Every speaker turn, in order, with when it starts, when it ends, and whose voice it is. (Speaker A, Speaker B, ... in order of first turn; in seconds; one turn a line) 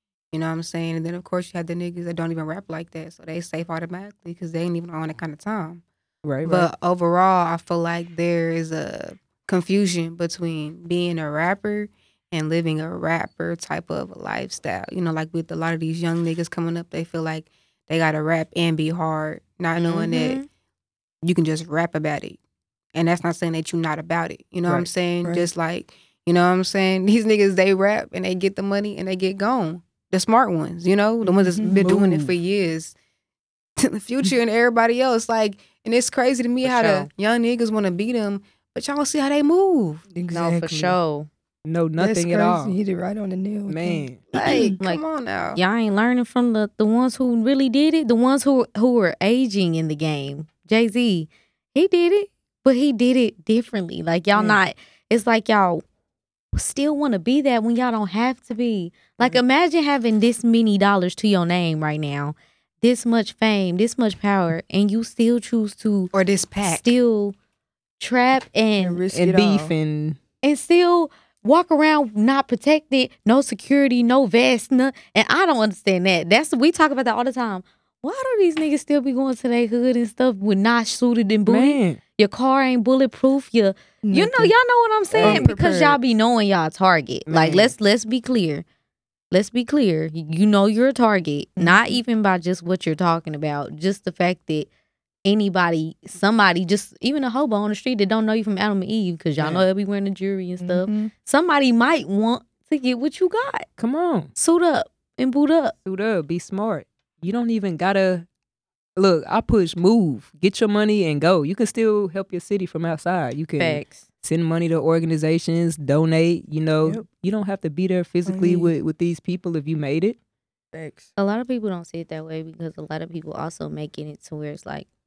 Speaker A: 0.3-5.8
Speaker B: 6.2-6.7
Speaker A: 6.4-20.4
Speaker C: 19.8-20.5
Speaker A: 21.2-22.4
Speaker A: 22.9-32.9
Speaker D: 25.2-25.5
Speaker D: 31.2-32.0
Speaker B: 31.7-32.3
Speaker A: 33.8-40.0
Speaker C: 36.6-37.1
Speaker D: 40.1-41.0
Speaker C: 40.3-41.3
Speaker B: 41.6-42.8
Speaker D: 42.0-44.8
Speaker B: 43.7-44.2
Speaker A: 44.3-45.6
Speaker C: 45.5-55.8
Speaker C: 56.5-66.1
Speaker A: 66.1-66.9
Speaker C: 66.6-67.3
Speaker C: 68.0-69.0
Speaker D: 68.8-69.7
Speaker B: 69.1-70.2
Speaker C: 70.4-88.6
Speaker B: 81.5-82.0
Speaker D: 84.0-84.5
Speaker B: 85.1-85.5
Speaker D: 85.2-86.0
Speaker B: 87.3-87.7
Speaker C: 89.3-94.7
Speaker D: 91.6-92.0
Speaker C: 95.2-103.7
Speaker B: 99.4-99.6
Speaker D: 100.6-101.1
Speaker B: 103.8-104.3
Speaker C: 104.3-105.7
Speaker B: 105.8-108.2
Speaker B: 109.0-120.2
Speaker C: 113.6-114.0
Speaker D: 118.2-118.7
Speaker D: 120.7-121.1
Speaker C: 121.2-124.9